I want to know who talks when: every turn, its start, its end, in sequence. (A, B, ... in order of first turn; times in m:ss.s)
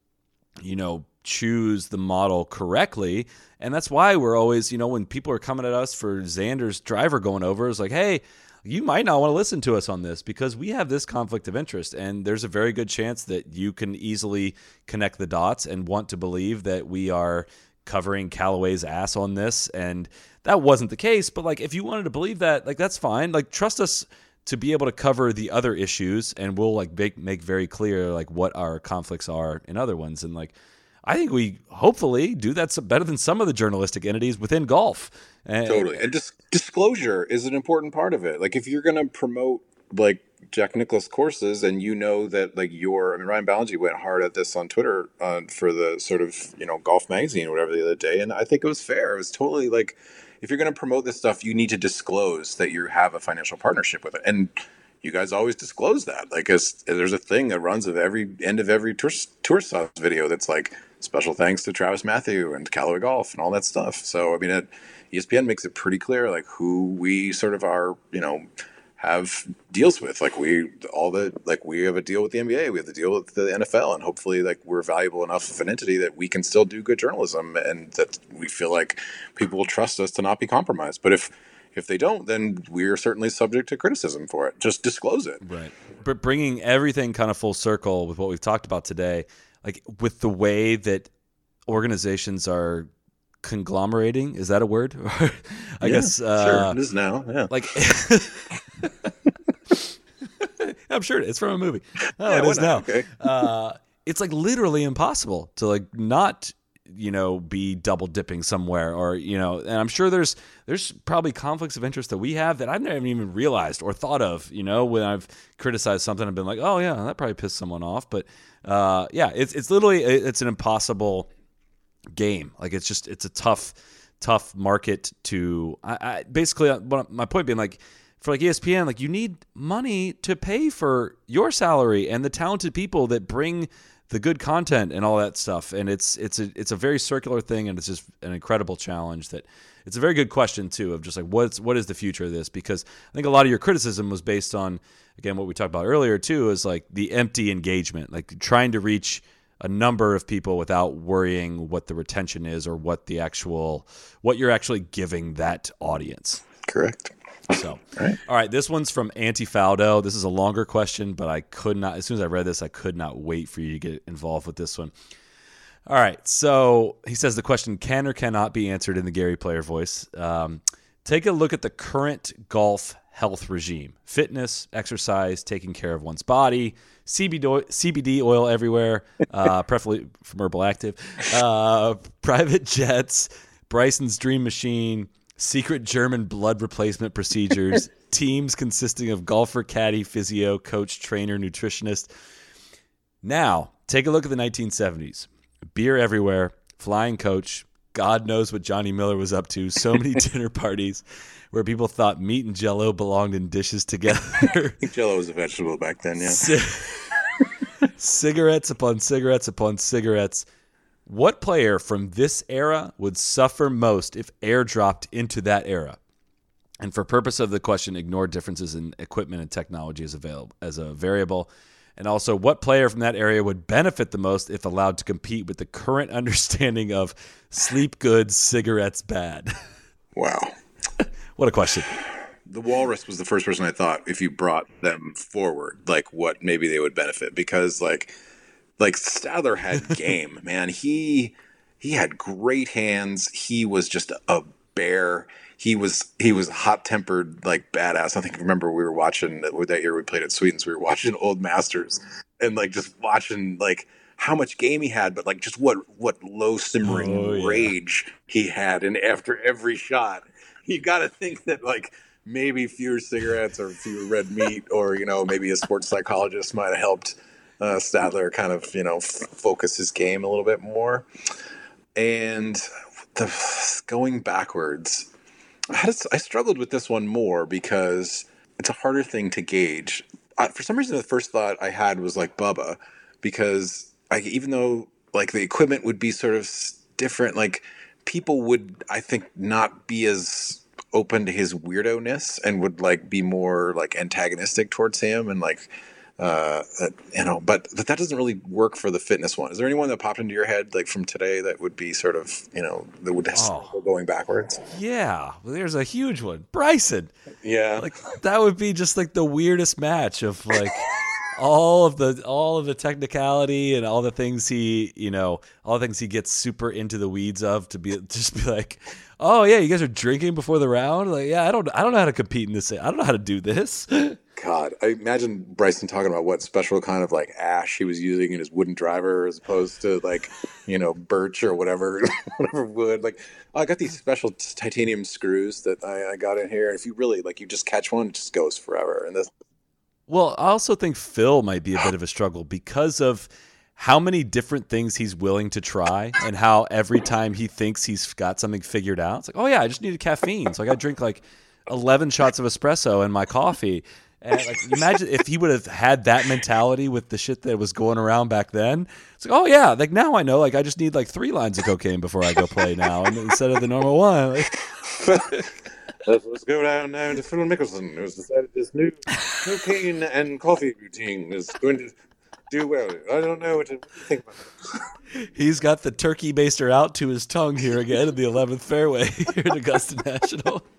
0:00.6-0:30.5 A
0:31.0-0:36.0 A
0:35.7-1:08.5 B
1:09.0-1:25.4 B
1:25.4-1:31.1 A
1:31.7-1:32.9 A
1:33.4-1:36.8 A
1:35.8-1:37.5 B
1:37.5-1:39.1 A
1:40.4-2:01.3 A
1:42.2-1:43.1 B
2:02.1-2:36.4 A
2:36.6-2:37.1 B
2:37.5-2:44.9 A
2:45.9-3:12.1 A
3:13.2-3:24.8 A
3:24.8-3:26.5 B
3:26.2-3:27.1 A
3:28.0-3:30.5 A
3:31.1-3:36.0 A
3:36.8-3:49.6 A
3:50.2-3:50.6 B
3:51.4-3:51.9 A
3:52.5-3:58.1 B
3:58.8-4:31.1 B
4:16.9-4:17.7 A
4:32.0-4:35.1 B
4:35.7-5:04.7 B
5:03.3-5:03.7 A
5:04.7-5:07.1 A
5:07.4-5:07.9 B
5:07.8-5:24.2 A
5:24.4-5:39.3 B
5:40.1-6:05.4 A
6:04.9-6:05.4 B
6:06.0-6:12.0 B
6:12.5-6:14.9 B
6:15.2-6:20.7 A